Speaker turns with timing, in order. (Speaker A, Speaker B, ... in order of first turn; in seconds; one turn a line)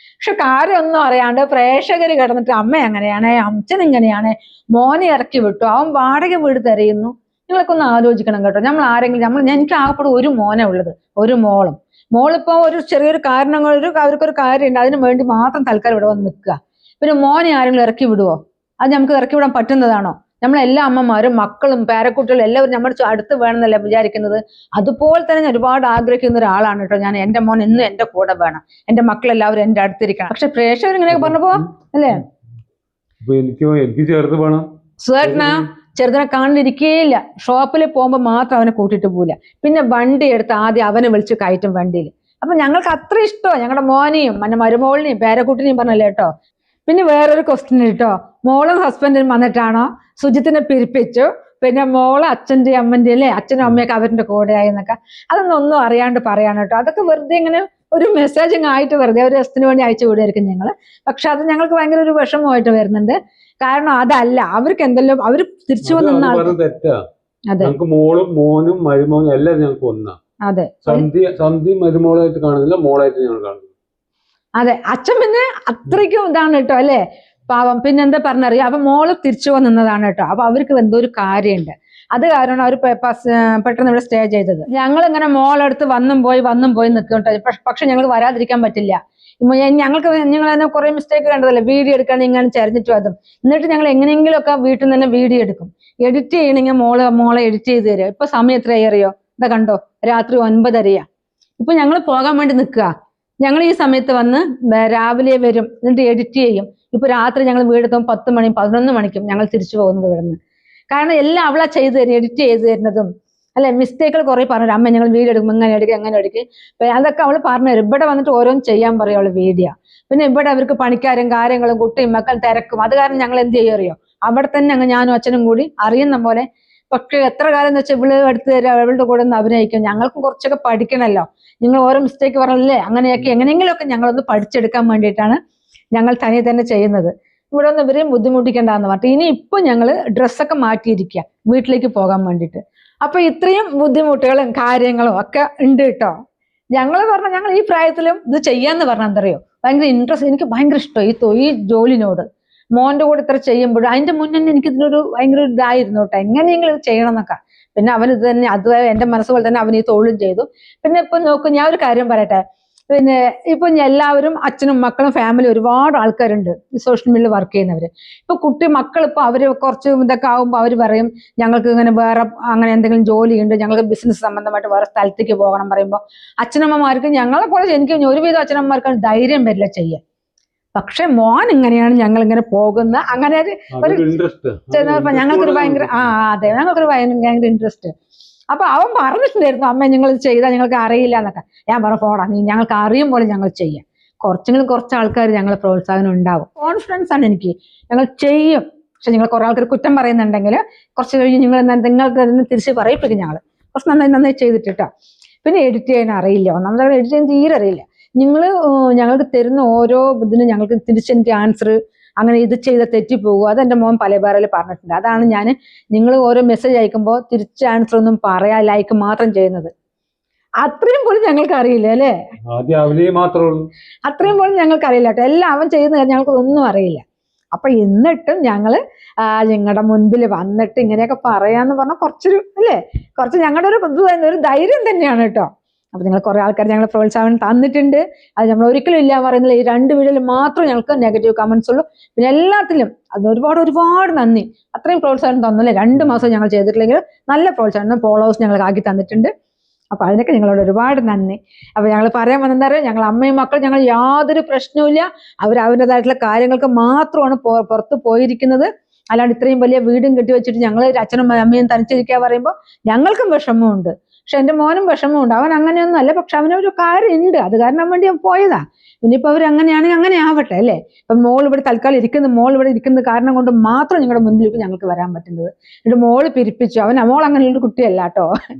Speaker A: 0.2-32.2
Speaker B: 31.1-31.6
Speaker B: 33.2-34.7
Speaker A: 35.0-46.3
Speaker B: 35.2-35.6
Speaker A: 46.9-66.5
Speaker B: 65.8-67.0
Speaker B: 67.6-70.2
Speaker A: 70.4-71.1
Speaker B: 70.8-73.7
Speaker A: 74.6-101.0
Speaker A: 101.6-102.9
Speaker A: 103.4-110.4
Speaker A: 110.9-135.4
Speaker A: 135.9-146.1
Speaker A: 146.7-180.0
Speaker A: 180.7-184.1
Speaker B: 183.7-186.1
Speaker A: 184.7-187.9
Speaker A: 188.5-204.9
Speaker A: 205.4-219.7
Speaker A: 220.6-222.1
Speaker B: 222.5-223.7
Speaker A: 224.0-227.0
Speaker A: 227.5-249.3
Speaker A: 249.9-278.3